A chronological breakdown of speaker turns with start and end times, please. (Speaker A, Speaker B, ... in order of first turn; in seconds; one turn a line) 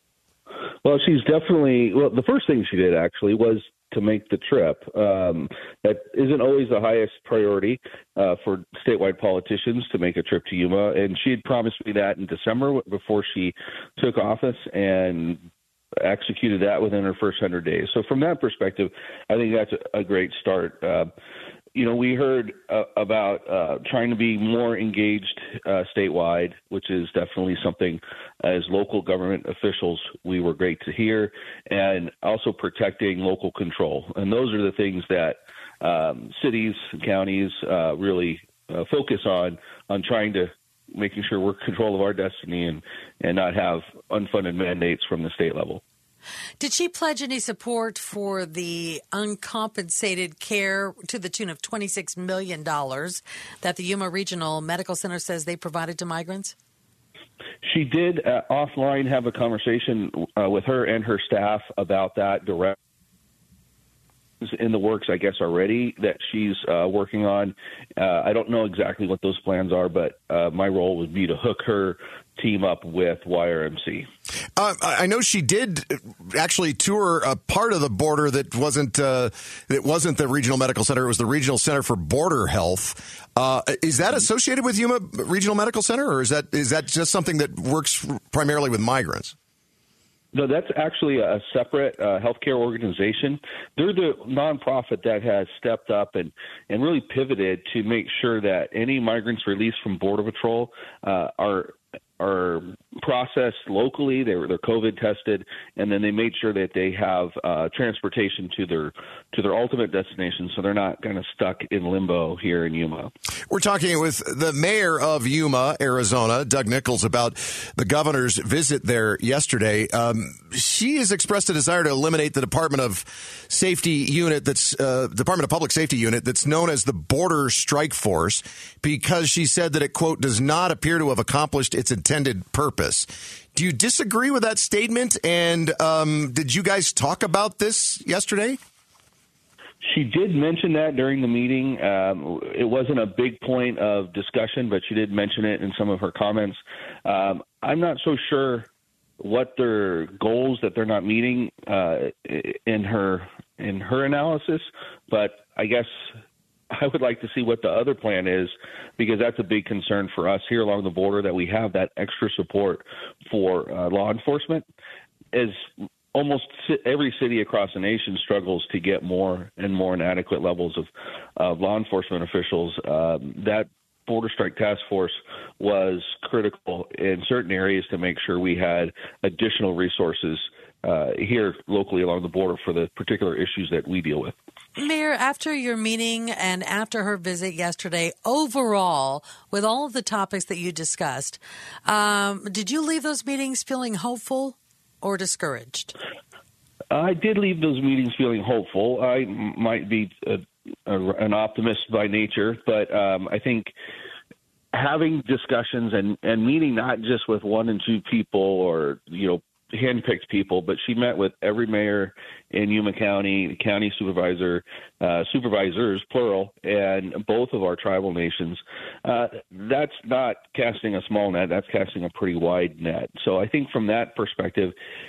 Speaker A: 0.8-15.5
Speaker A: 16.0-21.1
Speaker A: 21.8-45.8
Speaker B: 46.6-56.5
Speaker A: 57.6-62.8
Speaker A: 64.4-74.1
Speaker C: 74.6-89.3
Speaker A: 90.3-113.1
Speaker C: 113.5-138.6
Speaker A: 139.8-148.7
Speaker A: 149.2-156.1
Speaker A: 156.7-164.7
Speaker A: 165.3-184.4
Speaker B: 184.8-195.9
Speaker A: 196.9-203.7
Speaker A: 204.7-224.8